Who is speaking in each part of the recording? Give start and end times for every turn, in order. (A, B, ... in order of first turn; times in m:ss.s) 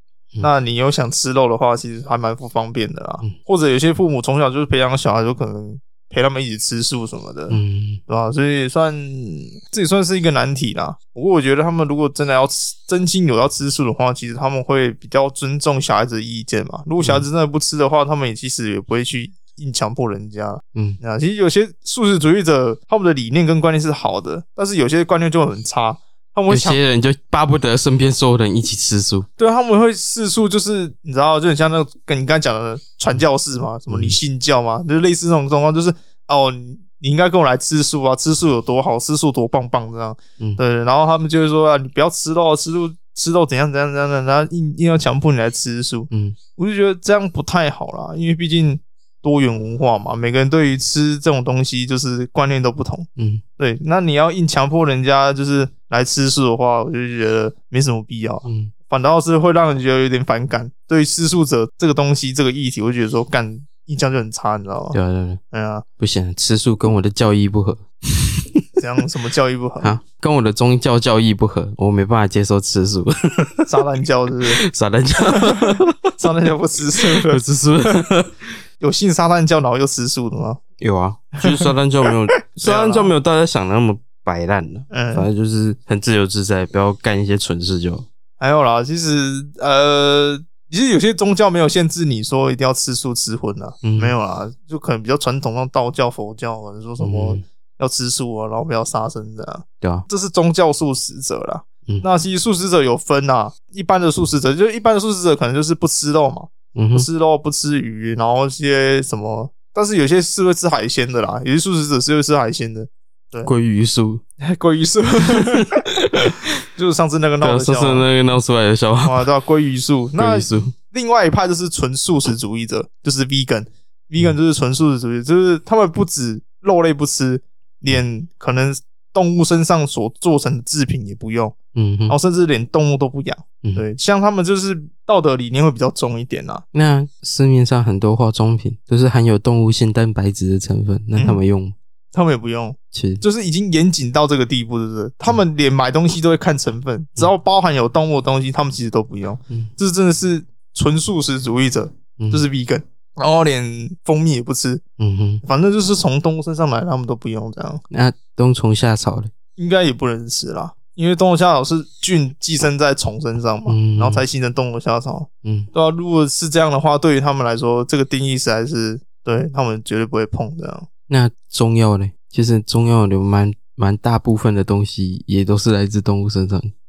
0:00.4-0:26.8 A
0:07.5-0:08.0 B
0:26.5-0:29.3 B
0:29.4-1:05.0 A
0:33.9-0:34.2 B
0:46.1-0:46.4 B
0:53.2-0:53.4 B
0:58.4-0:58.7 B
1:04.9-1:05.4 B
1:05.5-1:05.8 A
1:06.0-1:08.6 B
1:08.8-1:09.9 A
1:09.8-1:13.7 B
1:13.7-1:14.6 A
1:14.5-1:16.0 B
1:15.4-1:17.4 A
1:17.1-1:18.4 B
1:18.8-1:20.6 A
1:20.8-1:28.1 B
1:22.5-1:23.1 A
1:24.9-1:25.3 A
1:28.4-1:53.5 A
1:33.8-1:34.1 B
1:37.0-1:37.4 B
1:46.7-1:47.1 B
1:53.4-1:54.2 B
1:54.4-1:58.1 A
1:56.0-1:56.4 B
1:57.4-1:59.3 B
1:59.0-2:11.6 A
2:00.2-2:00.7 B
2:11.7-2:12.1 B
2:12.1-2:16.6 A
2:16.7-2:21.7 B
2:21.1-2:21.4 A
2:22.1-2:34.8 A
2:22.9-2:23.2 B
2:32.2-2:32.4 B
2:35.0-2:35.4 B
2:35.4-2:37.8 A
2:37.9-2:39.3 B
2:39.6-2:50.9 A
2:43.7-2:44.2 B
2:45.4-2:45.7 B
2:51.1-2:56.7 B